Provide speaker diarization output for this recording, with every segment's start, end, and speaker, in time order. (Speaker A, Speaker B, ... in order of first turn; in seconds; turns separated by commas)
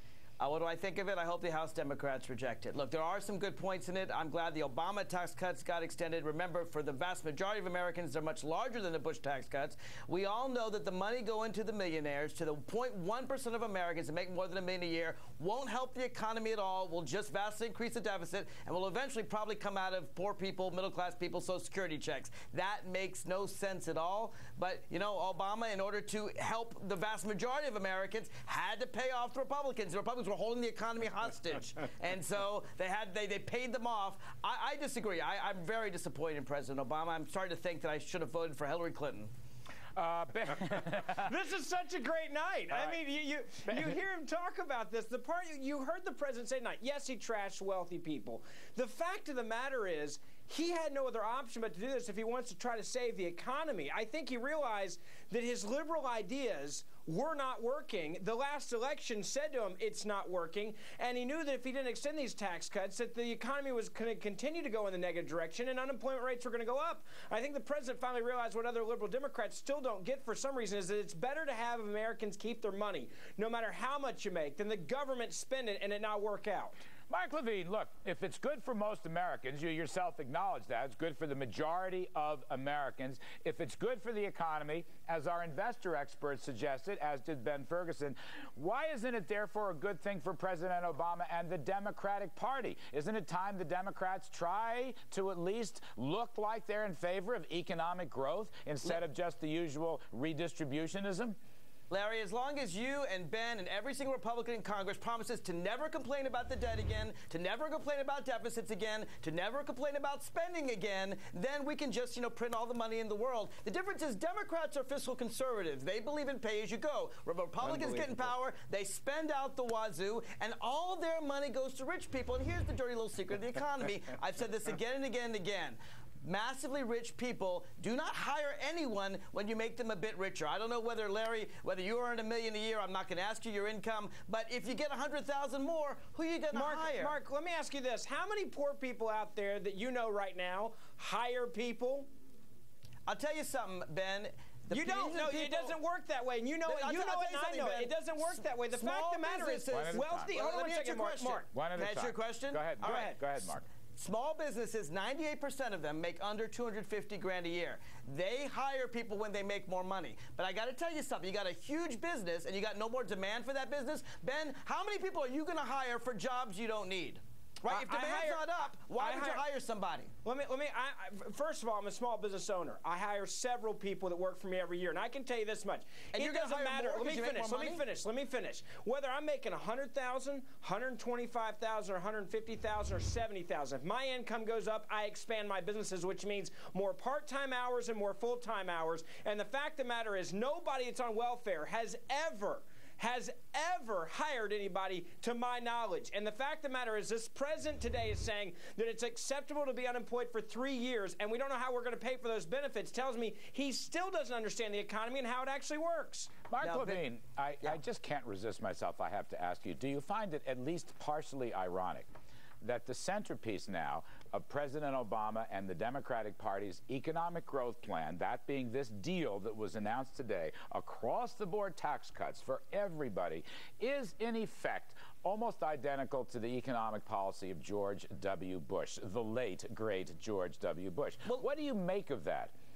Speaker A: 0.4-39.3, Speaker B: 40.0-41.3, Speaker C: 40.9-76.8, Speaker B: 42.7-43.0, Speaker B: 43.7-43.9, Speaker B: 77.1-101.4, Speaker A: 101.9-137.2, Speaker C: 117.6-118.2, Speaker C: 136.5-142.1, Speaker A: 143.1-145.8, Speaker C: 144.7-151.5, Speaker A: 146.7-153.3, Speaker B: 149.7-150.3, Speaker B: 151.5-153.7, Speaker C: 152.8-153.2, Speaker A: 153.9-170.1, Speaker C: 167.7-169.5, Speaker C: 170.2-206.3, Speaker A: 176.1-177.8, Speaker B: 206.5-212.1, Speaker A: 206.6-207.0, Speaker B: 212.6-232.5